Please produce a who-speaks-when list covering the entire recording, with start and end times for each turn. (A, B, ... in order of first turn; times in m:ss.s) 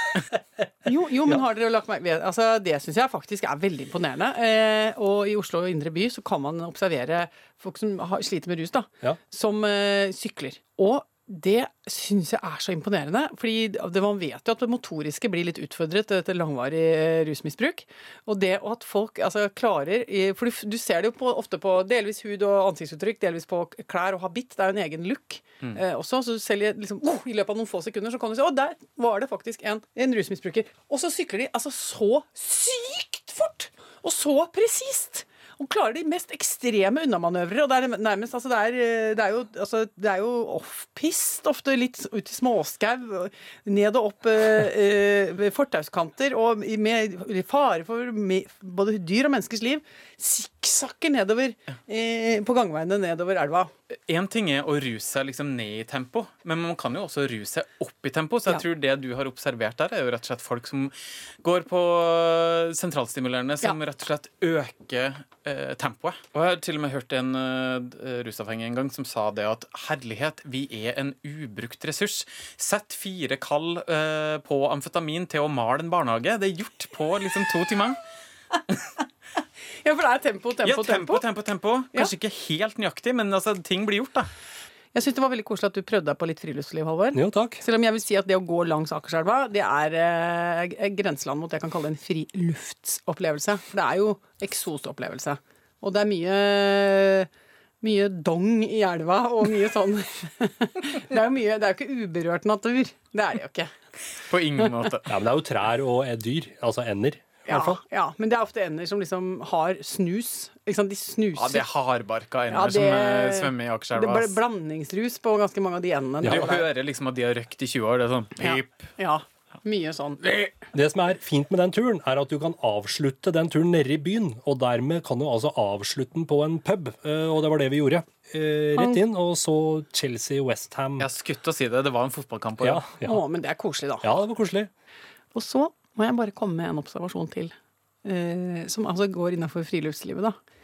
0:00.8-0:53.7 A
0:54.1-1:18.0 B
1:19.8-1:21.2 A
1:20.6-1:24.3 B
1:24.9-1:37.3 A
1:27.1-1:27.6 C
1:37.8-1:43.7 A
1:44.2-1:45.1 B
1:45.1-1:47.8 C
1:47.4-1:51.7 A
1:51.4-1:54.4 B
1:52.5-1:56.7 A
1:56.2-1:56.5 C
1:56.2-1:58.8 B
1:58.4-2:00.4 A
2:00.7-2:11.1 C
2:08.7-2:09.0 A
2:11.0-2:12.8 B
2:12.6-2:13.2 C
2:13.0-2:14.2 A
2:14.0-2:14.7 C
2:15.3-2:17.5 A
2:18.0-2:20.3 A